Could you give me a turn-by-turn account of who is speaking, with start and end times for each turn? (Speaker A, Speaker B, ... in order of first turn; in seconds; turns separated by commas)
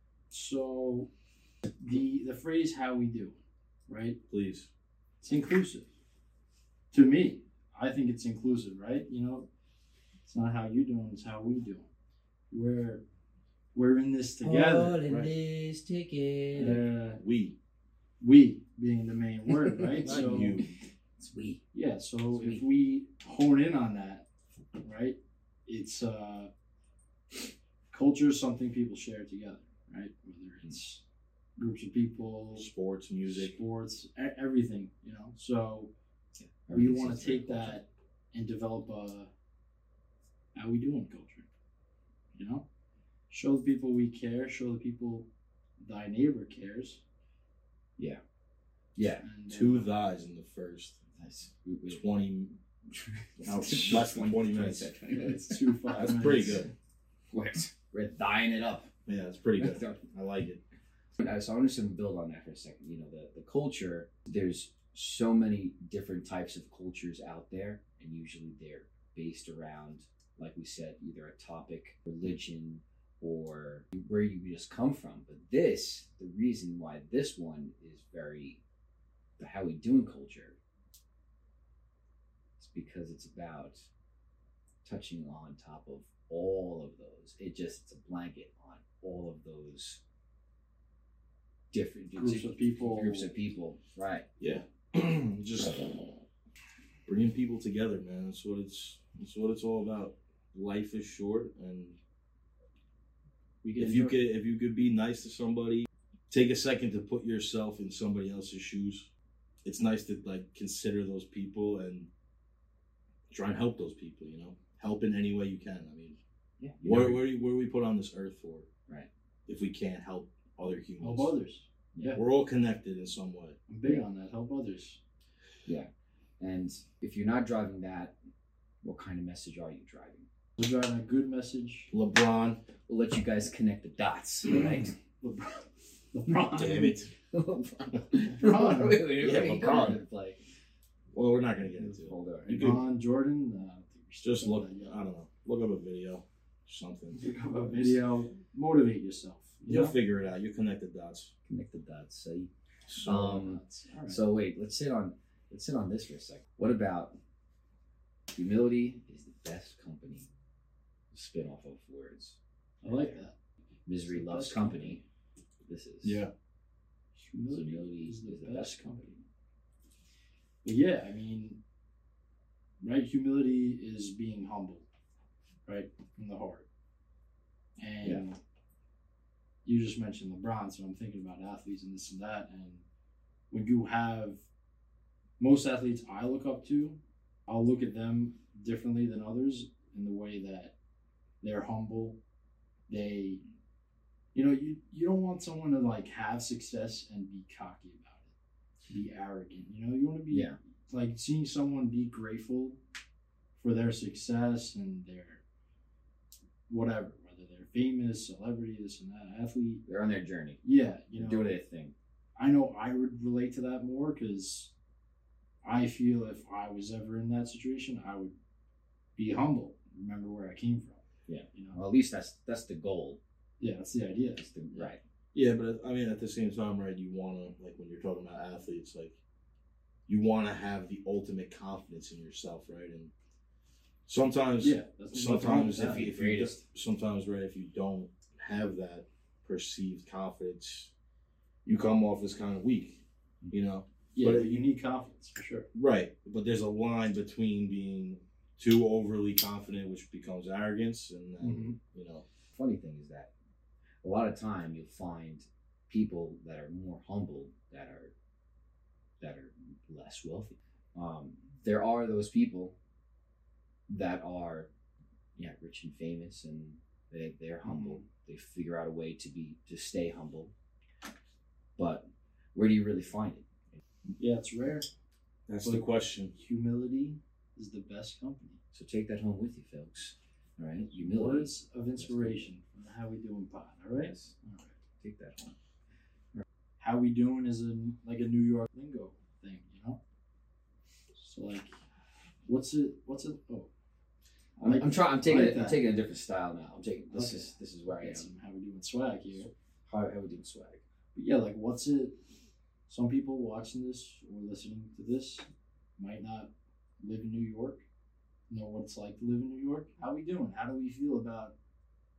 Speaker A: 0.3-1.1, Speaker A: 1.8-4.2, Speaker B: 4.3-4.7, Speaker A: 5.2-5.9, Speaker A: 6.9-9.5, Speaker A: 10.2-11.9, Speaker A: 12.5-13.0, Speaker A: 13.7-15.3, Speaker C: 14.4-16.8, Speaker A: 16.5-17.2, Speaker B: 16.6-17.6, Speaker A: 18.2-20.6, Speaker C: 19.6-20.7, Speaker B: 20.0-20.7, Speaker C: 21.2-21.6, Speaker A: 21.7-24.3, Speaker C: 22.3-22.6, Speaker A: 24.8-26.5, Speaker A: 27.9-31.0, Speaker A: 31.6-32.7, Speaker B: 32.6-33.5, Speaker A: 33.3-35.9, Speaker C: 36.4-37.8, Speaker A: 36.7-39.3, Speaker A: 40.5-41.5, Speaker A: 42.4-42.6, Speaker A: 43.3-45.3, Speaker A: 45.8-47.0, Speaker C: 49.0-49.3, Speaker A: 49.2-49.9, Speaker B: 49.5-51.0, Speaker C: 51.2-52.0, Speaker B: 51.9-52.6, Speaker C: 53.4-55.7, Speaker B: 53.4-54.9, Speaker A: 55.1-56.7, Speaker B: 55.9-56.7, Speaker C: 57.3-58.9, Speaker B: 59.1-60.6, Speaker C: 59.6-60.0, Speaker C: 61.2-78.6, Speaker C: 79.4-80.6, Speaker C: 82.6-83.8, Speaker C: 84.8-90.0, Speaker C: 91.7-94.3, Speaker A: 92.2-93.3, Speaker B: 94.4-95.9, Speaker B: 97.1-102.0, Speaker A: 103.6-104.2, Speaker B: 103.8-109.1, Speaker B: 109.6-112.1, Speaker B: 113.3-116.2, Speaker C: 116.6-117.2, Speaker B: 116.8-118.7, Speaker B: 119.5-121.3, Speaker A: 121.0-122.2, Speaker B: 122.2-123.6, Speaker A: 123.7-125.0, Speaker C: 125.7-128.2, Speaker C: 128.8-130.3, Speaker A: 130.6-131.9, Speaker B: 131.9-132.6, Speaker C: 132.9-134.9, Speaker A: 135.2-137.0, Speaker B: 136.6-137.1, Speaker C: 137.3-140.4, Speaker A: 138.3-139.1, Speaker B: 139.2-140.0, Speaker B: 141.1-142.8, Speaker C: 141.6-142.7, Speaker A: 142.5-145.0, Speaker B: 144.2-148.0, Speaker A: 147.1-150.0, Speaker B: 149.7-151.3, Speaker C: 151.5-152.5, Speaker B: 152.9-153.2, Speaker C: 153.0-157.2, Speaker A: 153.1-154.2, Speaker C: 158.3-160.3, Speaker C: 161.1-163.2, Speaker A: 162.8-163.3, Speaker C: 163.9-165.0, Speaker A: 164.1-165.0, Speaker C: 165.7-166.2, Speaker B: 166.0-166.3, Speaker A: 167.2-169.1, Speaker C: 167.5-169.2, Speaker A: 170.6-171.6, Speaker A: 172.8-174.9, Speaker A: 175.7-176.7, Speaker A: 177.8-178.4, Speaker A: 179.7-182.8, Speaker A: 183.5-184.4, Speaker A: 185.4-190.7, Speaker A: 191.4-192.2, Speaker A: 192.9-193.4, Speaker A: 194.3-198.3, Speaker A: 198.9-202.8, Speaker C: 200.3-200.6, Speaker A: 203.6-205.4, Speaker A: 206.7-209.8, Speaker C: 209.9-210.6, Speaker A: 210.6-211.6, Speaker C: 211.1-211.9, Speaker A: 212.4-214.7, Speaker A: 215.6-218.3, Speaker A: 219.2-221.0, Speaker C: 221.3-223.2, Speaker A: 221.5-221.8, Speaker A: 223.6-224.9, Speaker C: 224.3-225.0, Speaker B: 225.3-229.2, Speaker B: 230.1-233.1, Speaker B: 234.1-240.9, Speaker A: 234.6-236.1, Speaker C: 235.8-236.6, Speaker B: 241.7-244.7, Speaker A: 244.2-245.7, Speaker B: 245.8-252.2, Speaker A: 251.4-251.8, Speaker C: 252.5-253.3, Speaker C: 254.0-258.1, Speaker C: 259.2-262.8, Speaker C: 263.9-264.7, Speaker C: 265.4-270.5, Speaker A: 267.6-268.0, Speaker C: 271.8-273.4, Speaker A: 274.2-274.9, Speaker B: 275.5-276.3, Speaker A: 275.6-278.6, Speaker C: 278.7-282.5, Speaker A: 280.9-284.7, Speaker C: 284.0-284.3, Speaker C: 285.0-285.6, Speaker A: 286.8-290.0, Speaker A: 291.2-291.7, Speaker A: 292.5-293.7, Speaker A: 294.6-295.9, Speaker C: 294.6-298.3, Speaker A: 297.1-299.5, Speaker C: 299.9-300.8, Speaker A: 301.1-302.2, Speaker A: 302.9-305.4, Speaker A: 306.0-307.8, Speaker A: 308.5-311.5